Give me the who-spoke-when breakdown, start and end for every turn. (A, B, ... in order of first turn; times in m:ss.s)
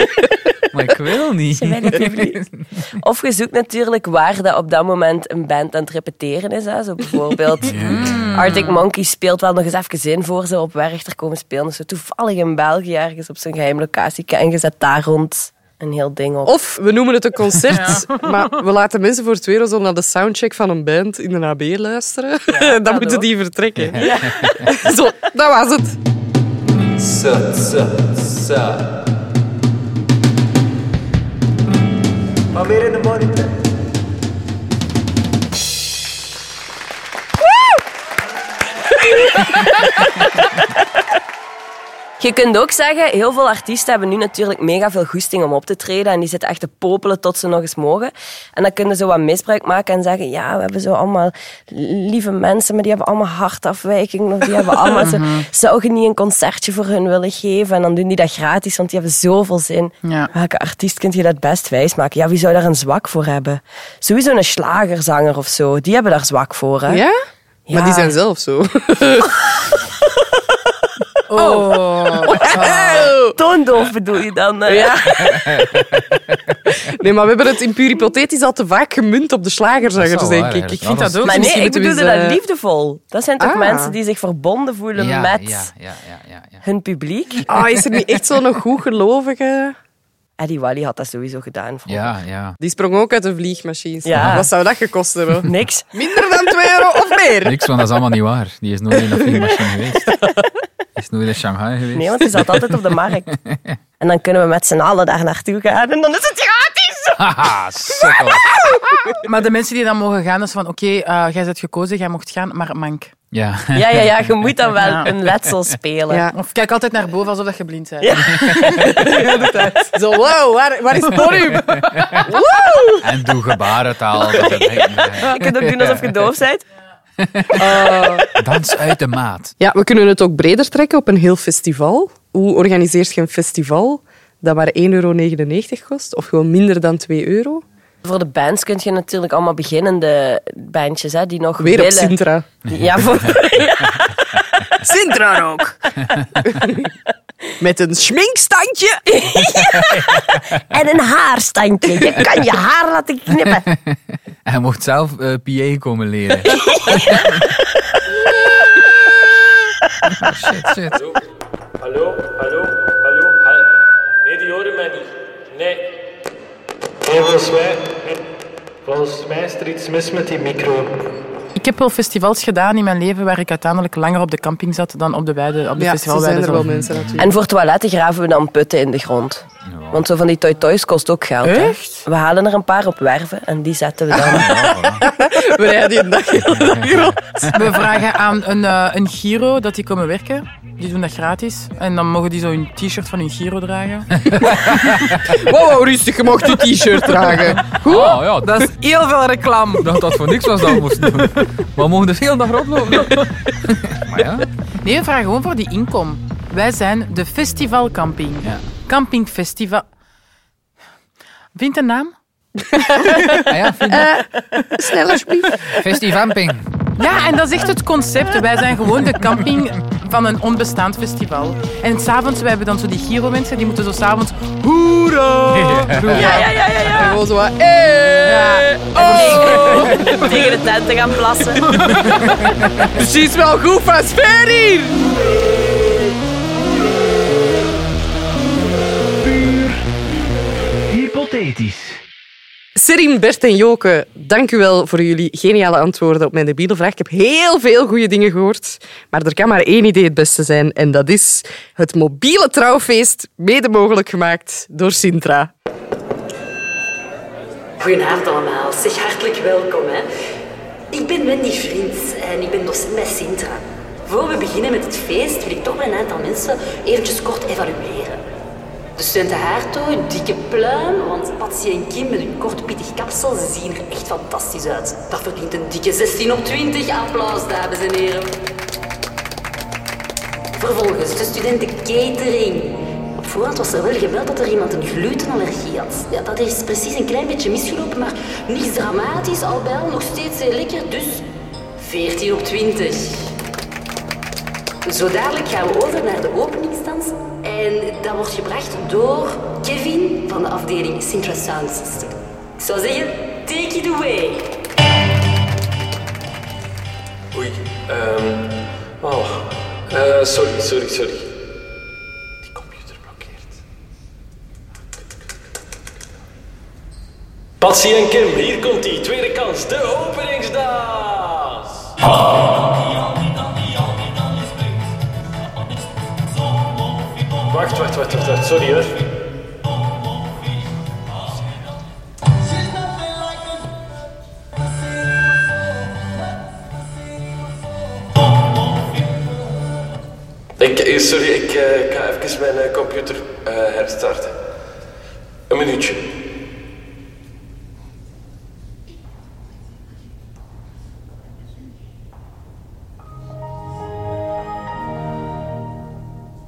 0:00.7-0:02.8 A
0:01.5-0:02.4 B
0:03.0-0:16.6 B
0:07.6-0:08.8 A
0:08.0-0:08.3 C
0:16.4-0:26.0 D
0:17.8-0:18.4 C
0:22.5-0:23.3 B
0:23.8-0:24.7 A
0:24.0-0:24.2 B
0:27.0-0:28.7 A
0:39.1-0:39.9 B
0:42.2-1:07.0 B
0:55.0-0:55.4 C
1:00.0-1:00.3 C
1:06.9-1:07.1 D
1:07.7-1:08.1 B
1:07.7-1:09.4 D
1:11.3-1:12.9 C
1:11.4-1:13.4 D
1:12.5-1:15.7 B
1:15.2-1:16.5 A
1:16.8-1:22.4 D
1:20.0-1:21.5 A
1:21.2-1:25.7 B
1:23.4-1:23.9 D
1:24.9-1:26.6 A
1:26.6-1:27.5 B
1:27.4-1:29.7 D
1:30.4-1:32.1 B
1:31.9-1:32.6 A
1:32.6-1:37.6 D
1:34.0-1:34.5 B
1:34.1-1:34.4 A
1:35.4-1:35.9 B
1:37.4-1:40.2 A
1:41.0-1:42.7 A
1:41.9-1:43.3 B
1:43.3-1:43.8 A
1:44.0-1:47.2 B
1:47.2-1:48.6 A
1:48.0-1:48.6 B
1:49.2-1:53.1 C
1:53.3-1:54.1 A
1:53.7-1:56.3 B
1:54.8-1:55.1 C
1:56.3-1:58.8 C
1:58.0-1:59.3 B
1:58.8-2:03.0 D
1:59.5-1:59.8 C
2:01.2-2:02.3 A
2:03.0-2:06.3 A
2:04.2-2:06.6 B
2:07.2-2:07.8 A
2:07.5-2:08.3 D
2:08.4-2:09.5 A
2:09.6-2:17.6 D
2:18.0-2:24.6 B
2:21.6-2:22.4 D
2:22.7-2:23.2 A
2:24.8-2:25.8 D
2:26.1-2:26.4 A
2:26.5-2:26.8 D
2:27.6-2:29.1 D
2:29.1-2:33.7 B
2:29.5-2:30.4 A
2:33.6-2:37.5 A
2:36.5-2:37.2 B
2:40.0-2:41.1 A
2:41.8-2:43.6 E
2:44.2-2:45.9 E
2:47.1-2:47.8 E
2:48.9-2:50.2 E
2:51.5-2:56.7 C
2:55.8-2:57.3 D
2:56.6-2:57.2 A
2:57.2-3:04.5 B
2:59.6-3:00.0 A
3:01.4-3:02.0 C
3:04.1-3:07.2 D
3:04.2-3:05.0 A
3:06.5-3:07.7 A
3:07.5-3:14.1 C
3:14.2-3:15.3 A
3:14.5-3:18.2 D
3:17.8-3:18.6 A
3:18.3-3:19.9 C
3:19.8-3:24.5 A
3:24.8-3:29.8 C
3:31.5-3:32.1 C
3:32.7-3:33.2 D
3:33.3-3:34.1 A
3:33.9-3:35.7 D
3:35.6-3:36.7 A
3:37.0-3:46.4 C
3:45.5-3:46.2 A
3:46.1-3:47.2 B
3:46.1-3:50.5 D
3:48.2-3:50.2 C
3:48.8-3:51.7 B
3:51.7-3:52.0 C
3:51.9-3:52.2 D
3:52.0-3:52.5 A
3:52.9-3:55.1 D
4:02.8-4:15.5 D
4:17.8-4:20.1 F
4:20.9-4:28.2 F
4:29.0-4:38.3 F
4:40.5-4:53.4 F
4:54.8-5:04.6 F
5:17.6-5:21.5 E
5:27.5-5:29.0 E
5:40.6-5:44.2 G